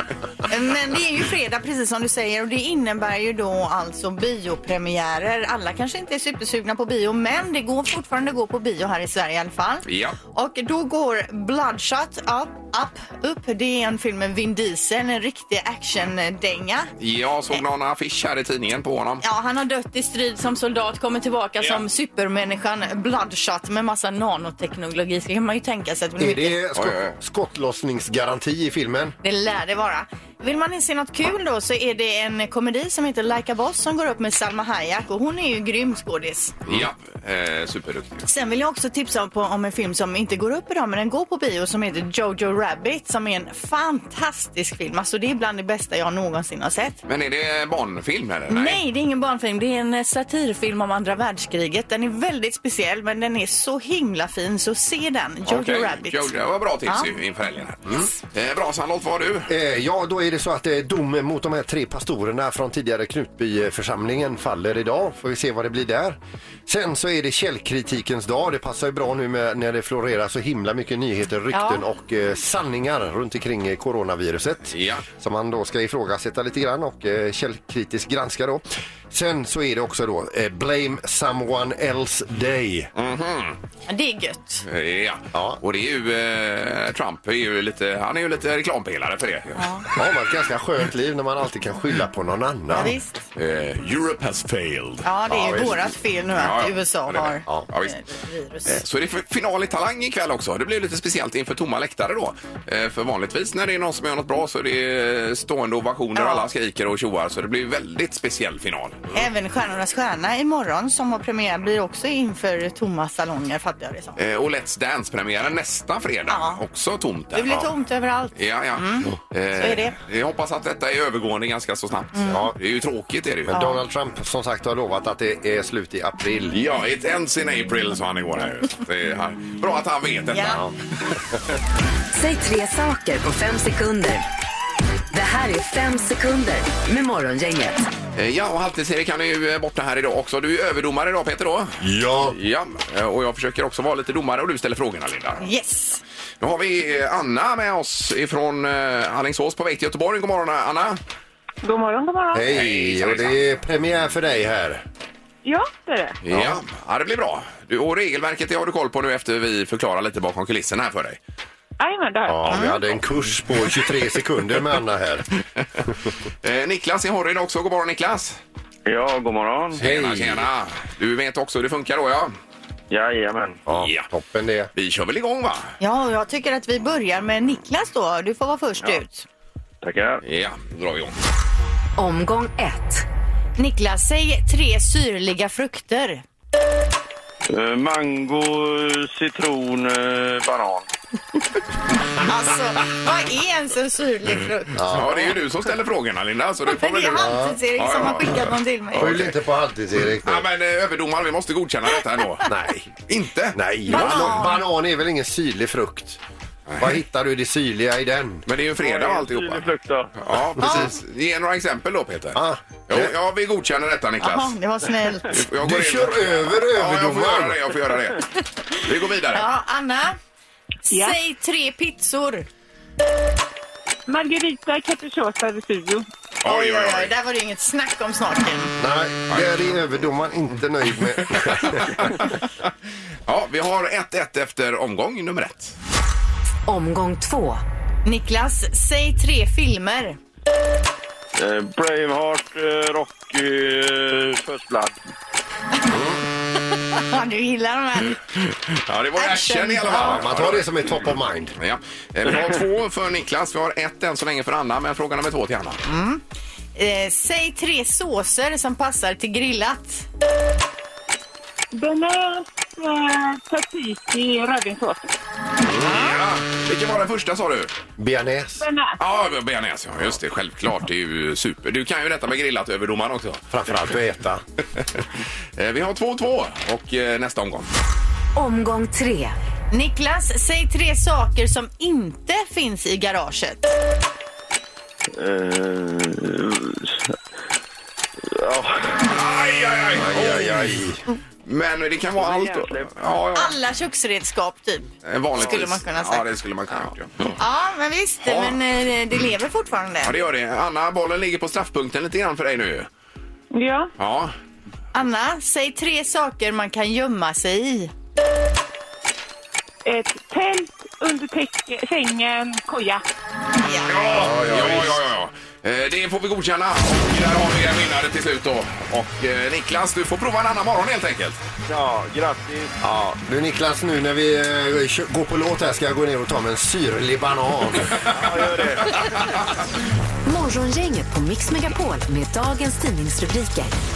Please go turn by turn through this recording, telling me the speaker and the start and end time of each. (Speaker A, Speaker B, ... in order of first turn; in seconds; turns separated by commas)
Speaker A: 0.4-16.9, Speaker B: 9.9-10.2, Speaker B: 17.0-19.2, Speaker A: 19.2-26.6, Speaker C: 26.2-29.1, Speaker B: 26.8-27.1, Speaker A: 29.2-36.6, Speaker B: 36.7-38.3, Speaker A: 38.3-47.0, Speaker B: 47.1-48.8, Speaker A: 48.5-56.4, Speaker B: 55.5-59.5, Speaker A: 56.9-57.1, Speaker C: 59.5-82.9, Speaker A: 71.5-71.8, Speaker B: 74.7-75.0, Speaker B: 83.0-83.6, Speaker A: 83.9-84.6, Speaker B: 84.7-89.6, Speaker C: 85.3-85.6, Speaker A: 89.6-89.8, Speaker C: 89.9-93.0, Speaker A: 92.7-93.2, Speaker B: 93.3-95.0, Speaker A: 95.0-98.8, Speaker C: 95.3-95.8, Speaker B: 96.4-98.0, Speaker B: 98.7-109.1, Speaker A: 106.2-106.5, Speaker A: 109.1-114.2, Speaker B: 114.2-117.5, Speaker A: 116.3-116.6, Speaker A: 117.3-120.0, Speaker B: 118.3-123.5, Speaker A: 122.1-122.4, Speaker C: 122.3-122.5, Speaker A: 123.5-123.8, Speaker C: 123.5-126.6, Speaker B: 126.5-130.7, Speaker A: 130.3-130.6, Speaker D: 132.1-134.2, Speaker D: 135.1-137.9, Speaker B: 138.2-141.8, Speaker C: 141.8-142.4, Speaker B: 142.3-145.4, Speaker A: 145.4-146.0, Speaker B: 146.4-151.0, Speaker E: 151.6-152.4, Speaker C: 152.3-154.8, Speaker B: 152.5-153.4, Speaker E: 155.4-156.2, Speaker B: 156.2-161.2, Speaker C: 156.3-156.6, Speaker E: 161.8-162.6, Speaker C: 162.3-165.3, Speaker A: 162.5-162.8, Speaker B: 166.4-168.4, Speaker F: 168.9-169.8, Speaker C: 169.8-170.5, Speaker B: 169.8-172.3, Speaker F: 172.9-173.6, Speaker C: 173.7-174.7, Speaker B: 173.8-174.1, Speaker B: 174.8-175.8, Speaker A: 175.8-179.3, Speaker F: 179.8-180.2, Speaker B: 180.2-181.1, Speaker D: 182.0-183.1, Speaker A: 183.6-186.2, Speaker F: 187.5-190.9, Speaker A: 192.2-195.3, Speaker C: 194.8-195.1, Speaker B: 194.9-199.3, Speaker A: 196.7-199.2, Speaker C: 197.2-197.6, Speaker C: 198.9-200.4, Speaker B: 200.2-202.5, Speaker C: 202.5-203.0, Speaker B: 203.1-204.5, Speaker C: 203.6-206.2, Speaker A: 203.9-204.6, Speaker B: 206.7-207.0, Speaker C: 206.8-208.4, Speaker B: 208.5-209.7, Speaker F: 208.8-210.2, Speaker B: 210.2-214.6, Speaker A: 210.6-210.9, Speaker C: 212.3-213.1, Speaker A: 214.2-215.4, Speaker B: 215.3-219.5, Speaker C: 215.6-217.6, Speaker A: 219.3-220.2, Speaker A: 220.8-222.5, Speaker E: 220.9-221.2, Speaker E: 224.1-226.1, Speaker B: 226.4-227.1, Speaker A: 226.4-228.8, Speaker C: 228.8-232.2, Speaker B: 229.3-229.7, Speaker B: 231.3-232.5, Speaker B: 233.3-235.8, Speaker D: 236.7-237.6, Speaker A: 238.1-240.2, Speaker F: 241.4-245.0, Speaker A: 246.9-248.2, Speaker B: 248.7-255.8, Speaker A: 249.2-250.2, Speaker C: 249.9-251.6, Speaker A: 255.8-256.2, Speaker A: 256.8-260.1, Speaker E: 261.7-265.1, Speaker C: 265.6-265.9, Speaker B: 265.8-267.7, Speaker C: 268.0-268.6, Speaker E: 268.6-269.0, Speaker B: 269.0-273.5, Speaker C: 273.5-274.4, Speaker B: 275.6-277.7, Speaker D: 278.4-279.4, Speaker A: 279.7-283.7, Speaker F: 285.2-287.1, Speaker F: 288.3-289.0, Speaker B: 289.0-290.8, Speaker C: 290.0-291.0, Speaker B: 291.4-293.6, Speaker F: 292.2-292.9, Speaker A: 293.4-296.3, Speaker B: 295.0-297.4, Speaker A: 297.4-300.1, Speaker B: 298.2-298.6, Speaker B: 300.0-302.9, Speaker E: 303.5-303.9, Speaker B: 304.0-304.4, Speaker A: 304.9-307.9, Speaker E: 309.9-313.0, Speaker A: 313.6-314.0, Speaker B: 313.9-321.4, Speaker C: 314.2-314.8, Speaker F: 314.3-314.8, Speaker F: 321.7-322.8, Speaker C: 322.8-328.1, Speaker F: 328.1-329.4, Speaker D: 330.3-333.7